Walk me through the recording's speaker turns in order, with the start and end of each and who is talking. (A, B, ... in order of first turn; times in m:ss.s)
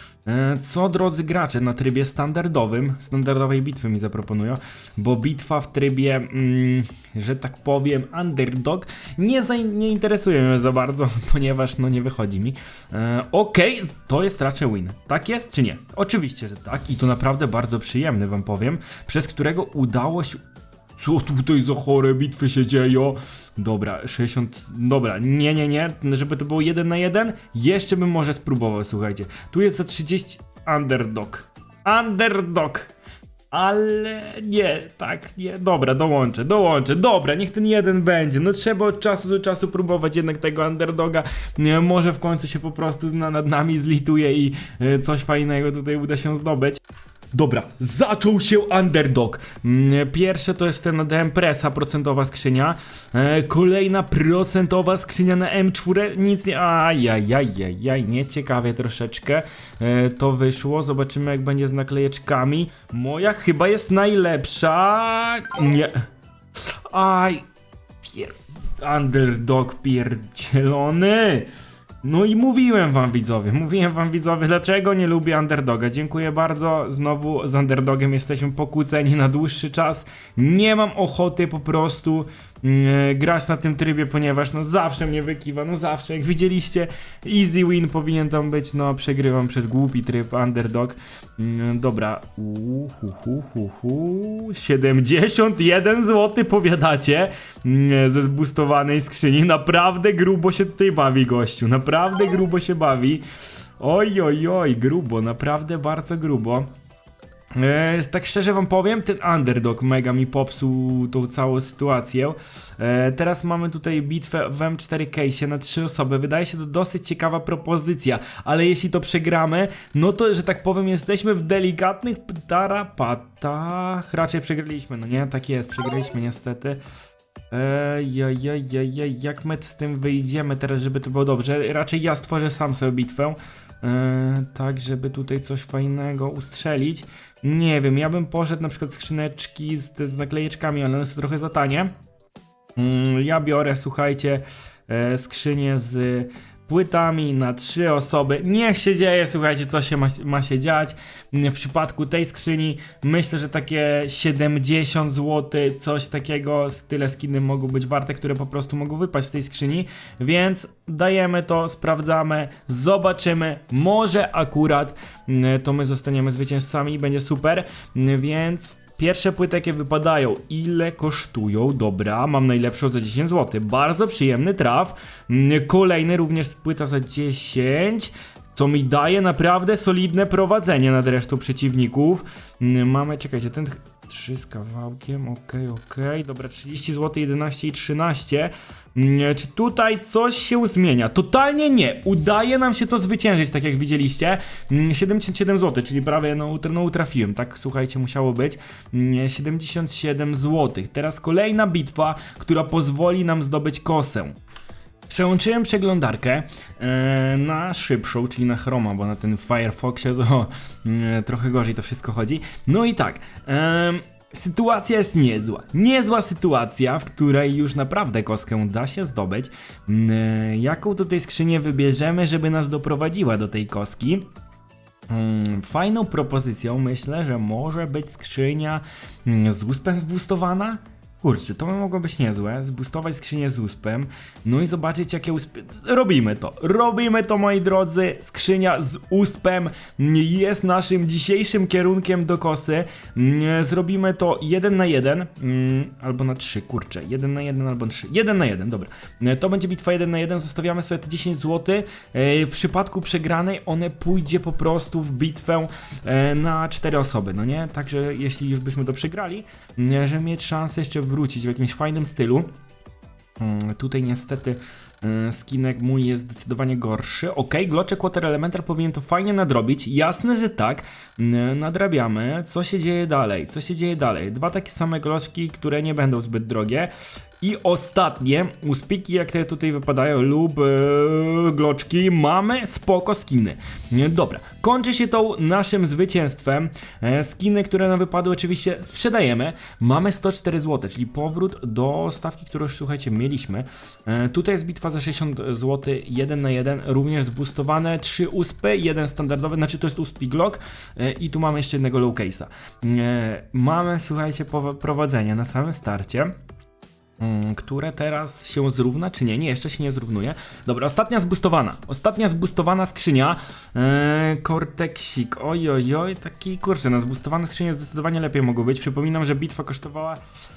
0:00.2-0:20.4 A
0:21.0-0:32.9 A
0:33.5-0:46.8 A
0:47.3-1:06.0 A
1:06.9-1:07.4 A
1:08.0-1:11.5 A
1:12.0-1:43.2 A
1:43.8-1:46.7 A
1:47.5-2:06.8 A
2:07.5-2:21.9 A
2:22.8-3:24.4 A
3:25.1-3:44.3 A
3:45.1-4:22.5 A
4:23.4-5:06.3 A
5:07.2-5:20.2 A